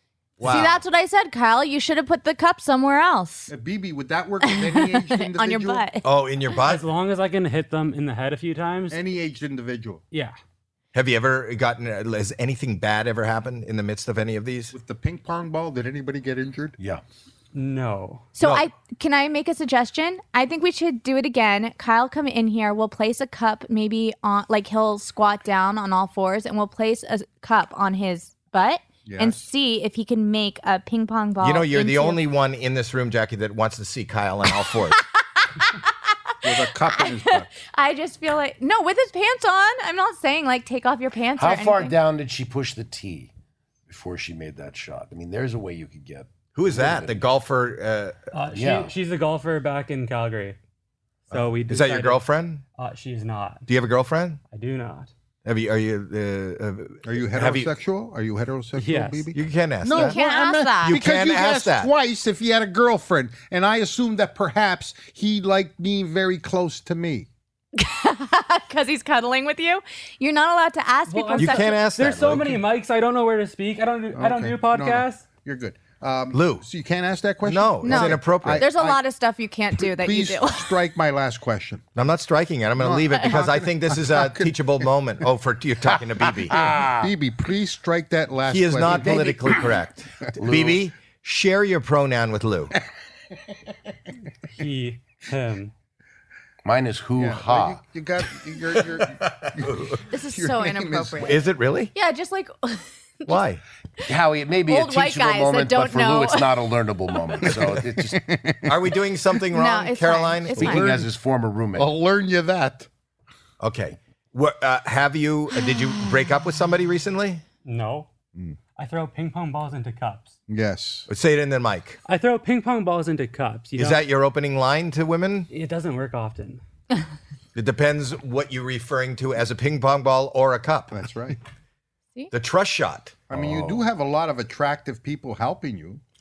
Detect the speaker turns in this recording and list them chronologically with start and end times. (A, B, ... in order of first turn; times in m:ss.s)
0:00.4-0:00.8 A
0:00.4-0:03.5 B
0:03.5-0:05.8 C
0:04.4-0:06.0 B
0:06.0-0:06.8 A
0:06.6-0:09.0 D
0:08.9-0:10.0 C
0:10.9-0:14.7 A
0:14.7-0:16.8 C
0:17.5-0:18.3 D
0:18.3-0:32.2 B
0:18.4-0:18.7 A
0:29.0-0:29.4 C
0:31.4-0:35.0 A
0:35.4-0:35.9 B
0:36.4-0:37.5 C
0:36.5-0:41.9 B
0:41.4-0:43.3 E
0:43.9-0:47.3 E
0:46.5-0:48.2 A
0:48.3-0:50.6 D
0:48.5-0:48.9 E
0:51.3-0:52.2 D
0:51.3-0:52.6 A
0:52.8-0:53.6 D
0:53.7-0:54.4 A
0:54.5-0:55.1 D
0:55.4-0:57.7 A
0:57.0-1:07.3 C
0:58.8-0:59.3 D
0:59.3-1:00.2 A
0:59.9-1:01.0 B
1:00.8-1:01.9 A
1:07.8-1:11.8 B
1:11.1-1:15.2 D
1:11.4-1:12.6 A
1:14.1-1:19.0 C
1:16.3-1:16.6 A
1:17.4-1:18.6 A
1:17.8-1:20.7 B
1:19.8-1:21.8 C
1:21.9-1:26.6 A
1:22.8-1:24.9 C
1:26.5-1:27.1 E
1:26.5-1:29.8 C
1:28.5-1:32.7 A
1:28.8-1:29.6 E
1:30.4-1:30.8 E
1:34.6-1:35.7 D
1:36.6-1:37.8 E
1:37.2-1:41.4 C
1:39.2-1:40.0 A
1:40.1-1:43.4 B
1:41.2-1:41.9 A
1:43.3-1:43.6 A
1:44.1-1:48.2 E
1:44.7-1:47.2 B
1:47.4-1:49.0 C
1:48.6-1:50.8 A
1:49.5-1:51.0 B
1:50.5-1:51.9 E
1:51.8-1:52.9 C
1:53.6-1:57.4 A
1:57.6-1:58.1 D
1:58.8-2:00.4 D
2:00.5-2:01.1 C
2:01.1-2:02.0 A
2:02.0-2:04.0 D
2:03.8-2:05.5 A
2:05.5-2:06.6 D
2:07.5-2:10.9 A
2:10.9-2:11.4 C
2:12.3-2:13.1 A
2:13.3-2:16.0 C
2:13.3-2:13.9 E